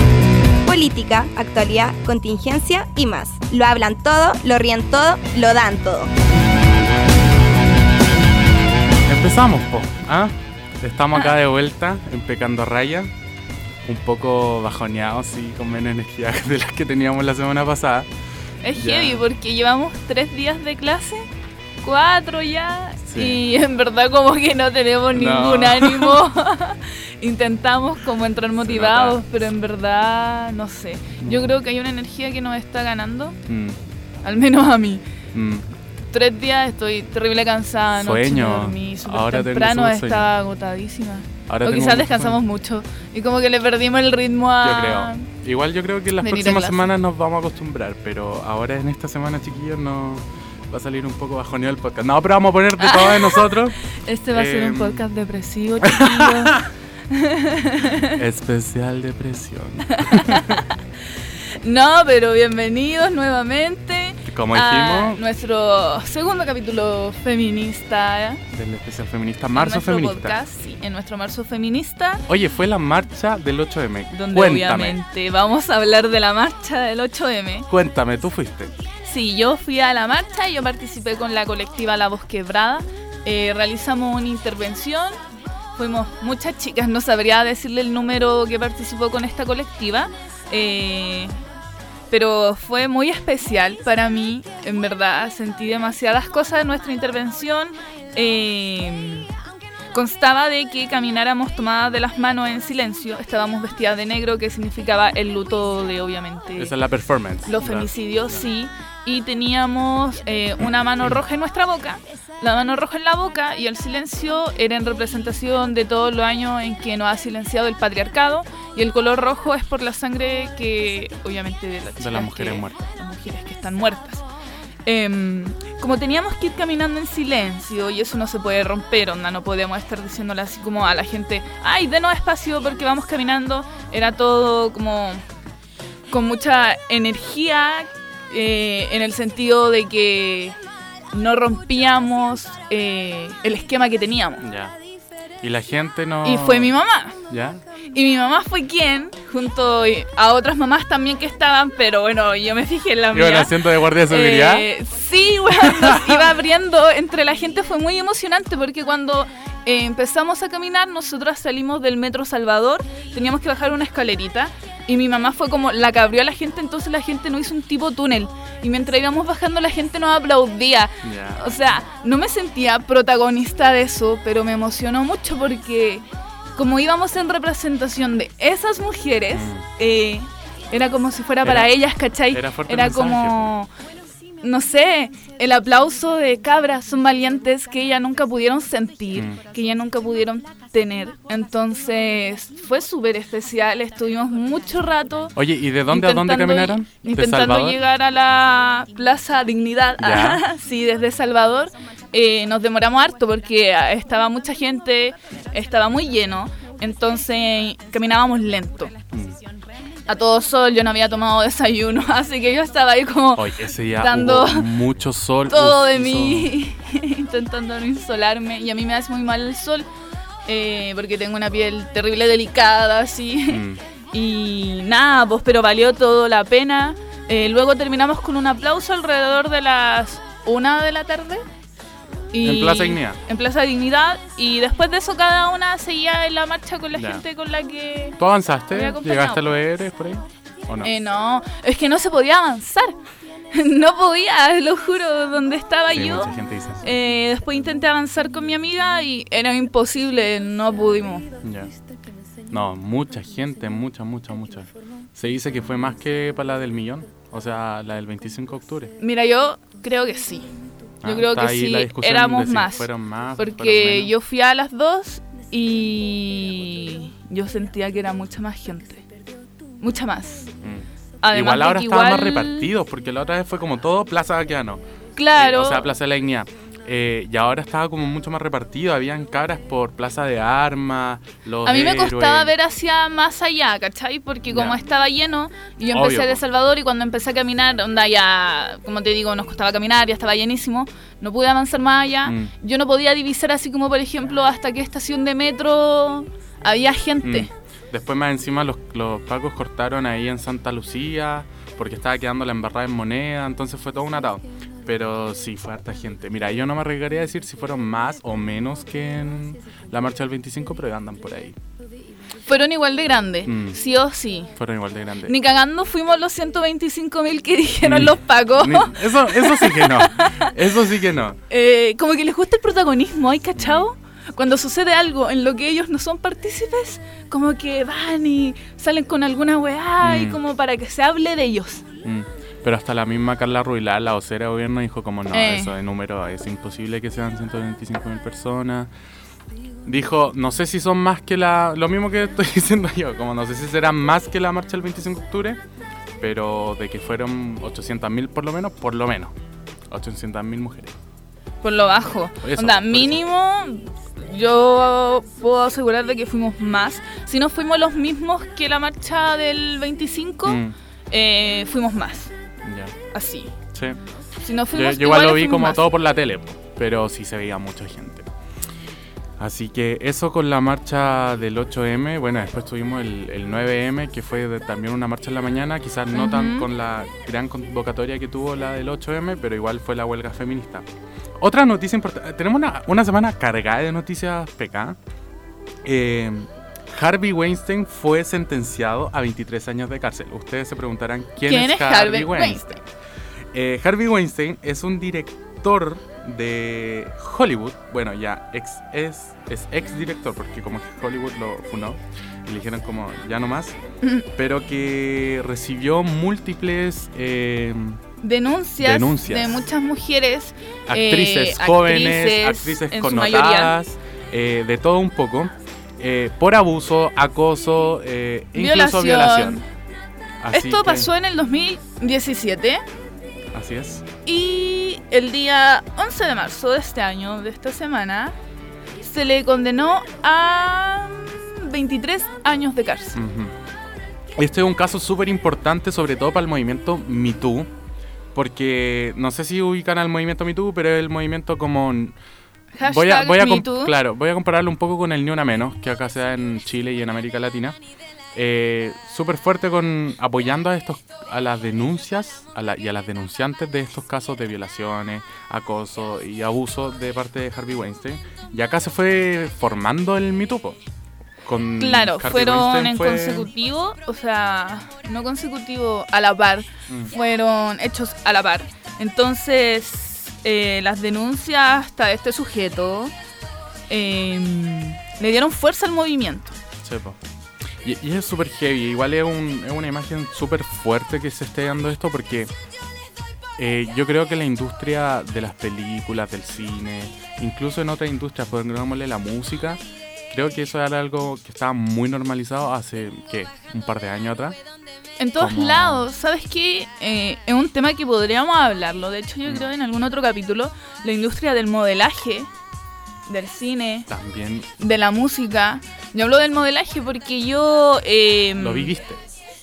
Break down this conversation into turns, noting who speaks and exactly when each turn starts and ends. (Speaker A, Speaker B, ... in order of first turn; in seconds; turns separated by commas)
Speaker A: 0.6-6.1, Speaker B: 9.1-13.1, Speaker B: 13.8-18.1, Speaker C: 18.6-21.3, Speaker B: 18.8-19.2, Speaker C: 21.8-33.4, Speaker B: 23.1-23.4, Speaker B: 25.1-26.2, Speaker B: 28.6-29.2, Speaker B: 31.2-31.5, Speaker B: 33.5-33.8, Speaker C: 34.2-35.0, Speaker B: 35.3-35.6, Speaker C: 36.1-45.3, Speaker B: 38.0-40.3, Speaker B: 41.5-42.4, Speaker B: 44.6-53.8, Speaker C: 46.2-46.9, Speaker C: 52.8-58.1, Speaker B: 54.3-55.0, Speaker B: 55.8-56.7, Speaker B: 58.0-60.6, Speaker C: 59.9-60.8, Speaker C: 61.3-68.4, Speaker B: 64.2-65.2, Speaker B: 68.5-70.4, Speaker C: 69.5-72.2, Speaker B: 72.3-75.0, Speaker C: 74.1-77.7, Speaker B: 77.7-78.7, Speaker C: 79.0-85.2, Speaker C: 85.8-91.3, Speaker C: 92.1-99.3, Speaker C: 99.9-106.7, Speaker B: 106.6-108.4, Speaker C: 107.5-124.2, Speaker B: 122.0-122.8, Speaker C: 124.8-135.2, Speaker C: 136.1-140.6, Speaker C: 141.1-144.4, Speaker B: 144.4-144.7, Speaker B: 145.4-146.7, Speaker C: 146.2-147.2, Speaker B: 147.3-147.6, Speaker C: 147.9-176.0, Speaker B: 153.1-154.7, Speaker B: 155.6-156.2, Speaker B: 171.0-171.6, Speaker C: 176.6-183.7, Speaker B: 179.3-179.6, Speaker B: 181.4-181.7, Speaker B: 182.3-183.5, Speaker C: 184.4-195.3, Speaker B: 195.3-197.8, Speaker C: 195.9-208.9, Speaker B: 200.0-200.4, Speaker B: 209.1-209.4, Speaker C: 210.1-214.7, Speaker B: 213.3-216.5, Speaker C: 215.5-219.9, Speaker C: 220.4-223.6, Speaker B: 223.5-223.8, Speaker C: 224.1-231.4, Speaker C: 232.3-238.2, Speaker B: 232.4-233.2, Speaker B: 236.9-237.2, Speaker B: 238.2-240.9, Speaker C: 238.7-239.5, Speaker C: 240.8-242.9, Speaker C: 243.5-251.2, Speaker B: 245.9-246.9, Speaker B: 251.4-251.7, Speaker B: 252.5-258.9, Speaker C: 259.0-260.5, Speaker C: 261.0-262.9, Speaker B: 261.0-264.1, Speaker C: 263.4-269.0, Speaker C: 269.8-270.5, Speaker B: 270.6-274.8, Speaker C: 271.2-272.7, Speaker C: 275.2-275.8, Speaker B: 275.4-282.5, Speaker C: 281.6-297.5, Speaker B: 284.5-284.8, Speaker B: 285.9-286.4, Speaker B: 292.2-292.5, Speaker B: 297.2-311.5, Speaker C: 312.4-314.5, Speaker B: 313.4-313.8, Speaker B: 314.6-315.3, Speaker C: 315.2-320.5, Speaker B: 317.8-321.4, Speaker C: 321.5-331.8, Speaker B: 323.6-323.9, Speaker B: 330.0-330.4, Speaker B: 332.0-338.9, Speaker C: 335.3-335.7, Speaker B: 339.8-345.6, Speaker B: 346.2-349.3, Speaker B: 349.9-350.9, Speaker C: 351.6-362.3, Speaker B: 352.4-353.2, Speaker B: 360.4-360.7, Speaker B: 362.6-362.9, Speaker C: 363.1-363.5, Speaker B: 363.7-364.0, Speaker C: 364.4-365.8, Speaker B: 364.7-368.2, Speaker B: 369.4-380.8, Speaker C: 376.1-376.7, Speaker B: 381.4-384.9, Speaker B: 385.8-392.7, Speaker C: 391.4-392.8, Speaker B: 393.5-403.8, Speaker B: 404.4-408.0, Speaker C: 408.2-413.7, Speaker B: 408.8-409.6, Speaker B: 410.9-419.6, Speaker C: 418.5-419.6, Speaker B: 420.4-421.1, Speaker C: 420.5-422.8, Speaker B: 423.5-424.0, Speaker C: 424.2-428.3, Speaker C: 429.0-433.2, Speaker B: 433.1-433.5, Speaker B: 434.4-437.7, Speaker B: 438.3-442.1, Speaker C: 442.8-443.9, Speaker B: 442.8-447.8, Speaker B: 448.3-460.8, Speaker B: 461.4-463.5, Speaker C: 461.8-473.1, Speaker C: 473.9-476.6, Speaker B: 476.8-477.2, Speaker B: 477.8-482.5, Speaker B: 483.6-489.8, Speaker B: 490.3-494.6, Speaker C: 495.2-502.5, Speaker B: 495.4-496.0, Speaker C: 503.3-504.1, Speaker B: 504.1-504.7, Speaker C: 504.8-508.9, Speaker B: 508.6-509.2